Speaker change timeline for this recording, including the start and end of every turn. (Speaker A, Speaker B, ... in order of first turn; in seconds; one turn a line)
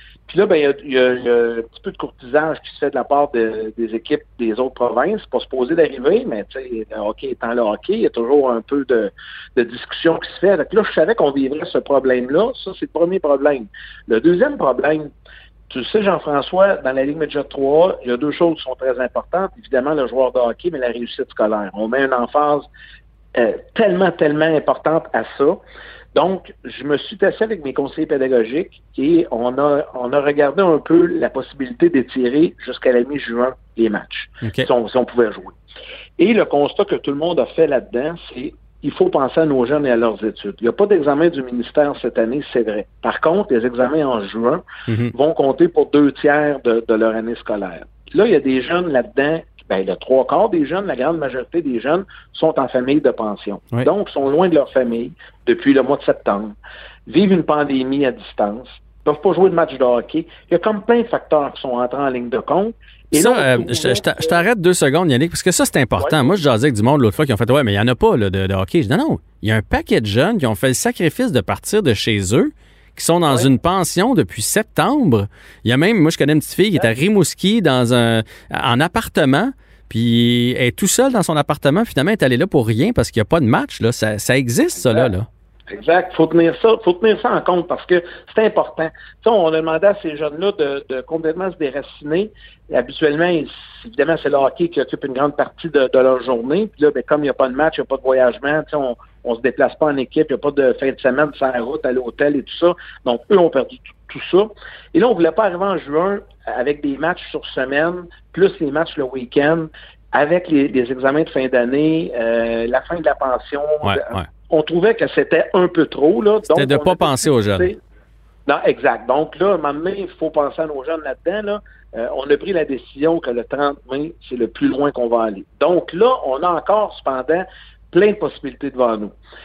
Speaker A: 0.3-15.1
Speaker A: 15.7-22.7
Speaker A: 23.4-25.6
Speaker A: 26.1-35.6
Speaker A: 36.2-56.6
Speaker B: 44.9-45.1
Speaker A: 57.1-64.4
Speaker B: 63.1-85.3
Speaker A: 66.0-66.4
Speaker A: 85.7-117.8
Speaker B: 113.8-114.3
Speaker B: 116.5-117.7
Speaker A: 118.5-129.1